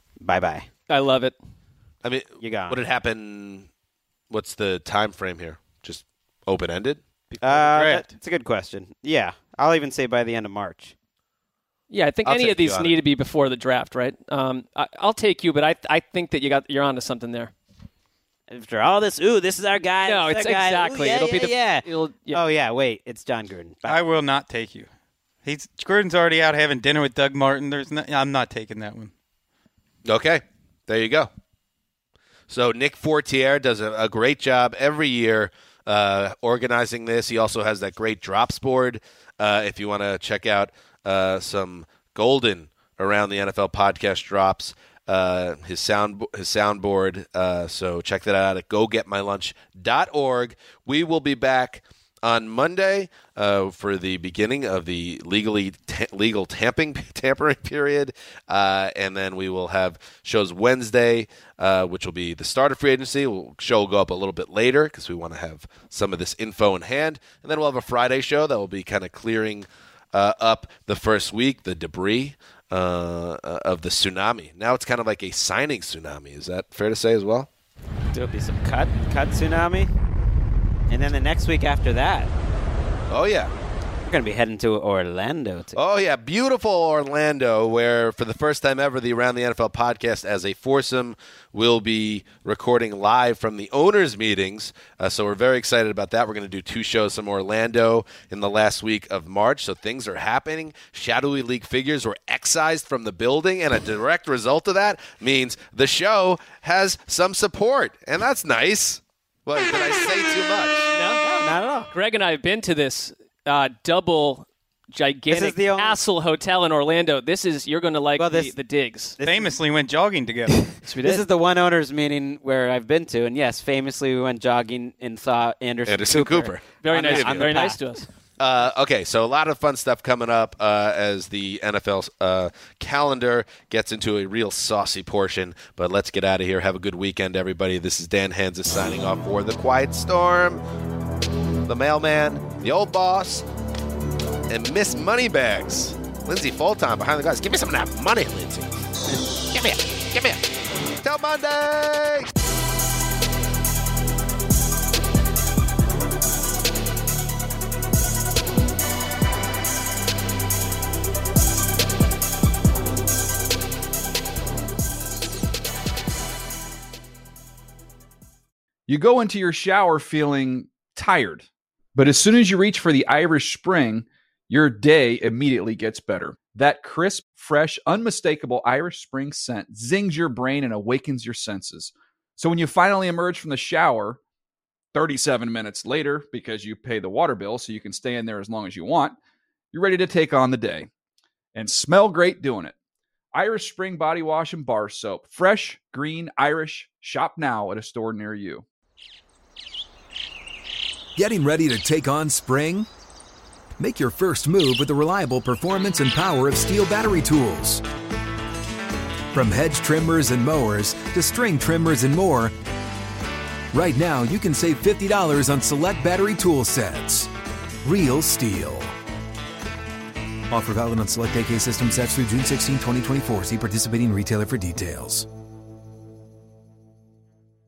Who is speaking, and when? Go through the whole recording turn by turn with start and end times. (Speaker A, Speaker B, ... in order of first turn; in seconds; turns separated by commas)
Speaker A: 0.2-0.7, Speaker B: 0.9-1.3, Speaker C: 2.0-3.7, Speaker A: 2.4-2.8, Speaker C: 4.3-7.0, Speaker D: 7.4-8.1, Speaker A: 7.4-10.9, Speaker B: 11.9-17.5, Speaker C: 12.2-13.0, Speaker A: 18.5-24.0, Speaker B: 20.0-22.4, Speaker D: 23.9-24.9, Speaker D: 25.4-29.1, Speaker C: 30.0-31.3, Speaker C: 32.5-77.5, Speaker A: 78.1-79.9, Speaker A: 80.9-82.3, Speaker C: 83.1-83.5, Speaker A: 84.0-85.8, Speaker C: 85.7-110.9, Speaker B: 110.9-111.2, Speaker A: 111.2-111.9, Speaker B: 111.9-119.2, Speaker A: 115.3-116.0, Speaker A: 118.2-118.5, Speaker A: 119.2-119.5, Speaker D: 119.2-120.7, Speaker B: 120.8-121.2, Speaker A: 121.0-128.0, Speaker C: 125.8-127.6, Speaker B: 126.8-128.1, Speaker C: 128.4-140.6, Speaker C: 141.7-143.4, Speaker C: 144.5-148.7, Speaker C: 149.5-150.4, Speaker C: 151.0-152.3, Speaker E: 168.9-184.2, Speaker E: 184.9-189.2, Speaker E: 189.7-190.9, Speaker E: 191.5-192.7, Speaker E: 193.3-198.7, Speaker F: 201.2-202.9, Speaker F: 203.8-207.8, Speaker F: 209.3-212.5, Speaker F: 213.7-217.3, Speaker F: 217.8-218.9, Speaker F: 220.5-225.3